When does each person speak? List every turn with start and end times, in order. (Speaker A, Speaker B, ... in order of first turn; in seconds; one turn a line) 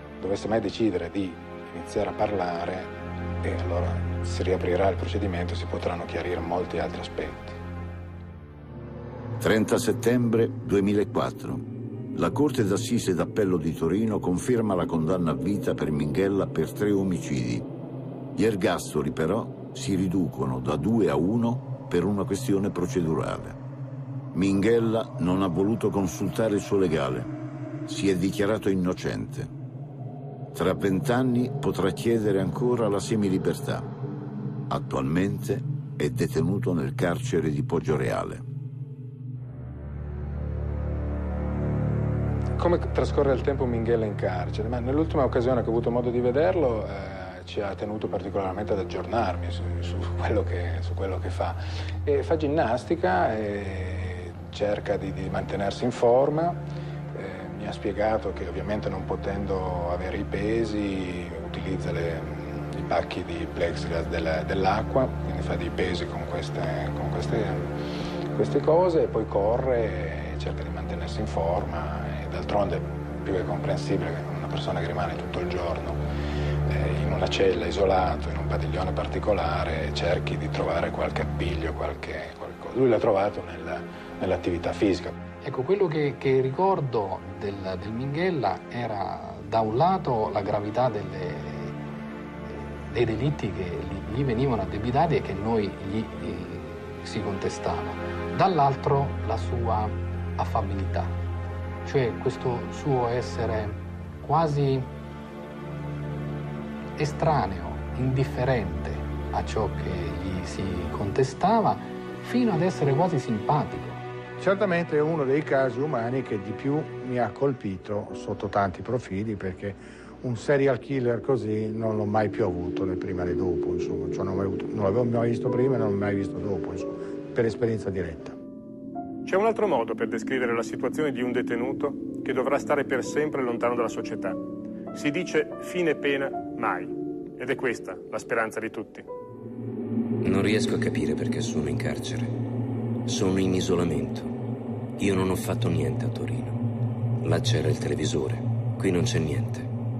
Speaker A: 0.2-7.6
Speaker B: 9.4-17.7
Speaker B: 18.3-23.6
Speaker B: 24.3-27.3
Speaker B: 27.9-29.5
Speaker B: 30.5-33.9
Speaker B: 34.7-38.5
Speaker A: 42.6-56.6
Speaker A: 57.1-67.7
Speaker A: 68.3-76.0
Speaker A: 76.7-85.2
Speaker C: 85.4-91.8
Speaker C: 92.5-101.2
Speaker C: 101.8-104.9
Speaker C: 107.0-114.0
Speaker D: 114.4-128.4
Speaker E: 129.2-134.4
Speaker E: 134.9-139.1
Speaker F: 140.2-142.3
Speaker F: 143.1-144.3
Speaker F: 145.0-146.6
Speaker F: 147.2-149.7